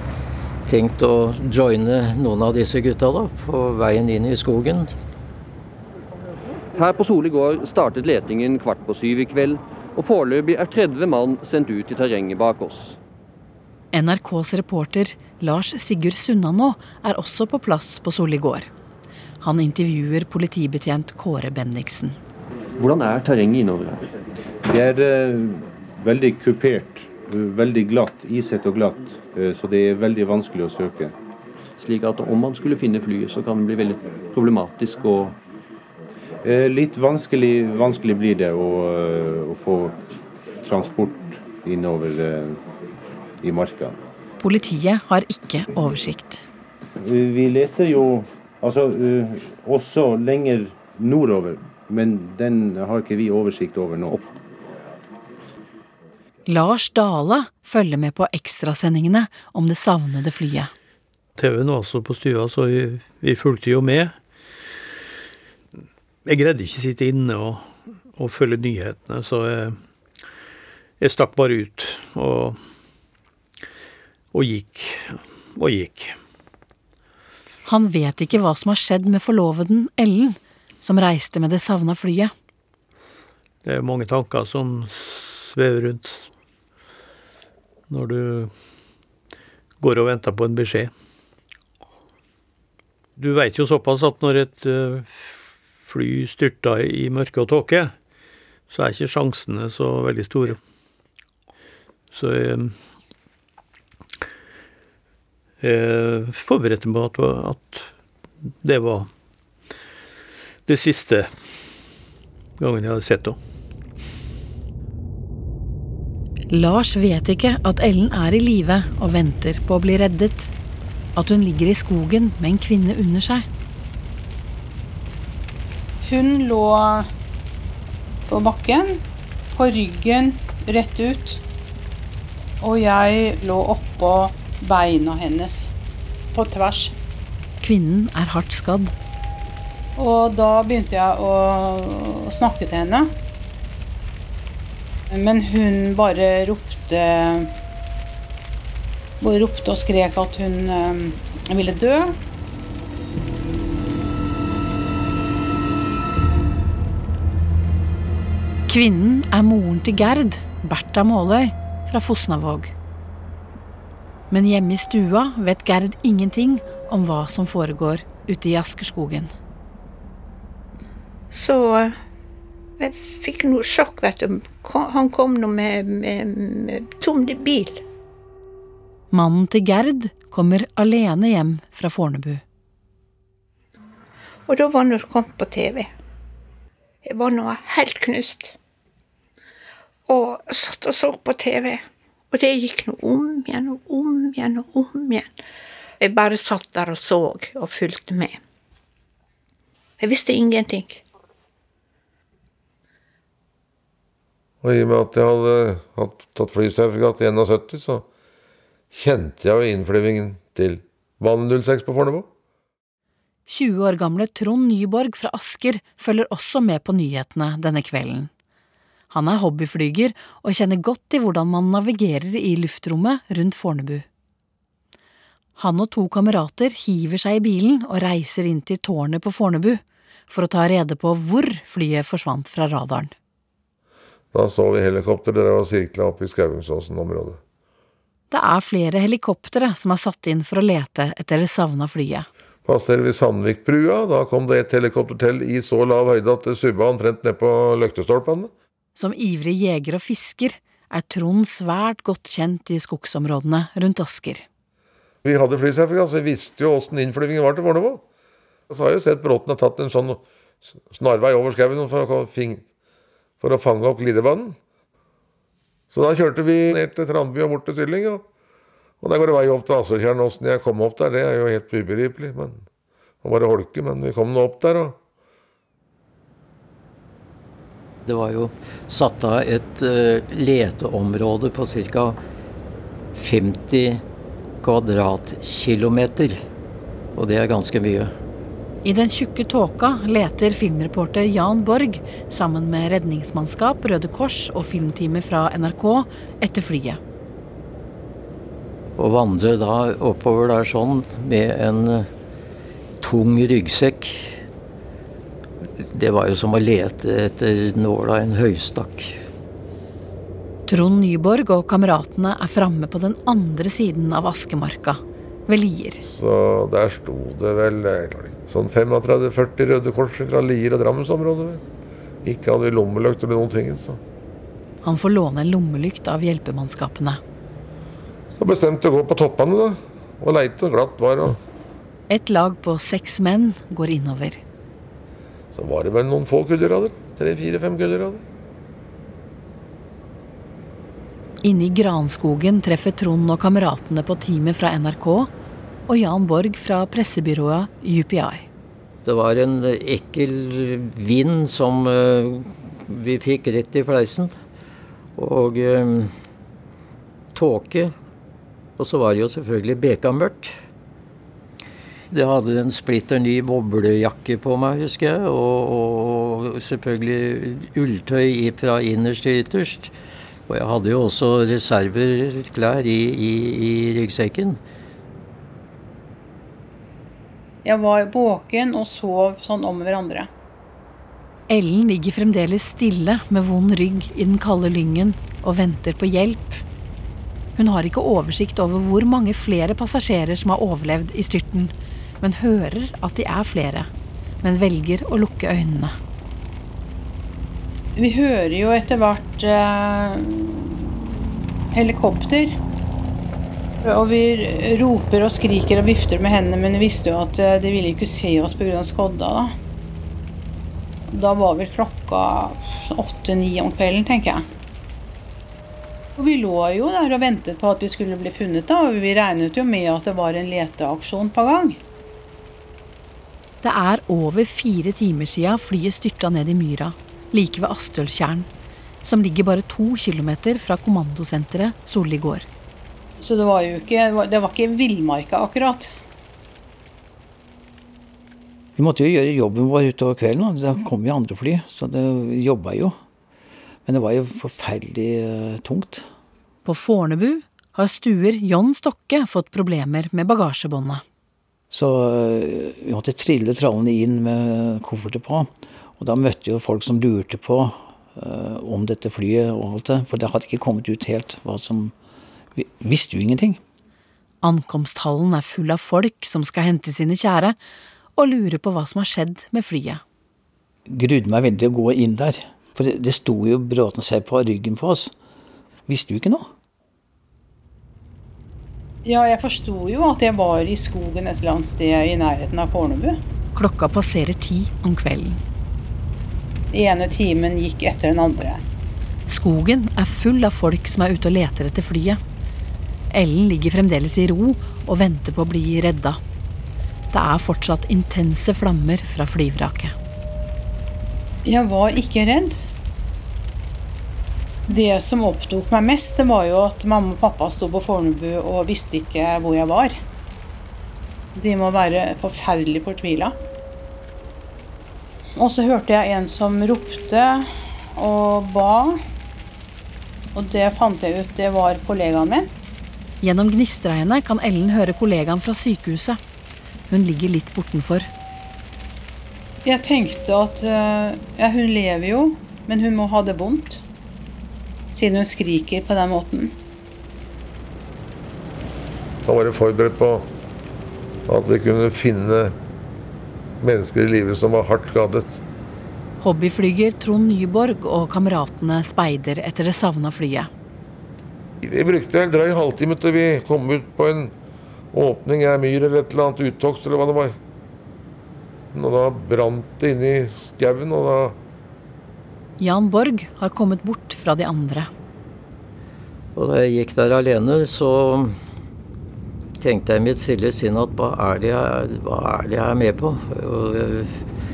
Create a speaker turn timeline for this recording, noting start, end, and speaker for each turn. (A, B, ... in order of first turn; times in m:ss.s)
0:00.7-0:04.9 A
0:06.8-0:13.0 B
0:13.9-0:18.7 C
0:19.4-0:22.2 C
0:22.8-0:24.0 B
0:24.6-0:31.2 D
0:31.8-0:35.4 B
0:36.4-0:40.0 D
0:40.6-0:42.6 D
0:43.4-0:44.0 D
0:44.4-0:46.4 C
0:47.0-0:54.3 D
0:56.5-1:00.7 C
1:01.4-1:04.2 E
1:06.3-1:09.8 E
1:11.0-1:12.6 E
1:14.3-1:16.2 E
1:17.7-1:22.3 C
1:23.6-1:26.3 E
1:27.9-1:28.5 E
1:29.8-1:30.9 E
1:33.2-1:37.9 E
1:38.7-1:40.6 E
1:42.1-1:42.8 E
1:45.6-1:47.9 E
1:48.6-1:49.1 E
1:50.7-1:51.3 E
1:52.6-1:53.4 E
1:56.5-2:00.5 C
2:01.2-2:03.5 C
2:06.0-2:07.1 F
2:08.3-2:09.0 F
2:09.5-2:11.4 F
2:12.6-2:15.7 F
2:16.3-2:17.0 F
2:17.6-2:18.9 C
2:20.0-2:23.1 F
2:25.1-2:27.5 F
2:29.2-2:32.2 F
2:38.7-2:42.7 C
2:44.3-2:49.3 C
2:51.3-2:52.0 G
2:52.8-2:57.8 G
2:59.1-3:02.4 C
3:04.5-3:05.9 G
3:07.0-3:08.6 G
3:10.1-3:15.4 G
3:16.0-3:18.4 G
3:20.0-3:21.0 G
3:24.6-3:28.1 H
3:28.9-3:32.3 H
3:33.5-3:38.3 C
3:39.1-3:44.0 C
3:45.6-3:53.1 C
3:54.3-3:57.4 H
3:58.3-4:02.3 C
4:02.6-4:08.5 H
4:09.0-4:14.5 C
4:15.2-4:18.0 H
4:18.7-4:20.2 H
4:20.9-4:22.6 H
4:23.4-4:24.6 H
4:25.9-4:28.2 H
4:29.0-4:32.6 H
4:33.2-4:35.0 H
4:38.1-4:42.2 A
4:43.2-4:44.0 A
4:44.6-4:46.4 A
4:47.2-4:48.1 A
4:48.8-4:57.0 C
4:59.0-5:02.1 A
5:03.0-5:04.4 A
5:05.8-5:09.2 A
5:10.7-5:16.0 C
5:16.0-5:21.6 H
5:22.2-5:24.0 H
5:24.8-5:27.2 C
5:28.4-5:31.4 H
5:32.1-5:34.4 C
5:35.6-5:38.2 H
5:41.4-5:45.3 C
5:45.9-5:48.5 C
5:49.0-5:54.4 A
5:55.2-5:56.1 A
5:57.4-5:57.9 A
5:58.8-6:00.6 A
6:02.1-6:09.9 A
6:10.5-6:14.6 A
6:17.6-6:20.3 F
6:21.5-6:26.6 C
6:27.6-6:33.9 C
6:34.4-6:36.0 C
6:38.0-6:41.0 F
6:41.7-6:42.6 F
6:43.8-6:49.5 F
6:51.1-6:54.4 F
6:56.2-7:01.8 F
7:03.6-7:08.5 C
7:09.0-7:12.5 C
7:13.2-7:15.9 F
7:18.8-7:23.0 I
7:23.9-7:26.1 I
7:26.6-7:31.0 C
7:31.7-7:41.9 I
7:42.6-7:43.6 I
7:44.4-7:47.6 C
7:48.2-7:50.0 C
7:50.9-7:55.1 I
7:55.9-7:56.5 I
7:59.0-8:03.2 F
8:03.6-8:05.4 C
8:06.7-8:08.6 F
8:09.3-8:12.2 C
8:13.1-8:16.2 C
8:17.1-8:19.9 C
8:21.4-8:22.6 F
8:24.7-8:30.0 F
8:31.4-8:33.4 F
8:35.4-8:39.0 F
8:40.4-8:42.5 F
8:43.2-8:46.2 C
8:46.9-8:48.1 C
8:49.6-8:53.8 F
8:54.9-8:56.5 F
8:59.2-9:00.3 H
9:01.3-9:02.6 H
9:03.6-9:05.4 H
9:06.2-9:10.5 C
9:11.6-9:14.3 H
9:14.9-9:17.4 H
9:18.7-9:21.4 H
9:22.6-9:24.9 C
9:26.4-9:28.4 A
9:29.6-9:34.2 A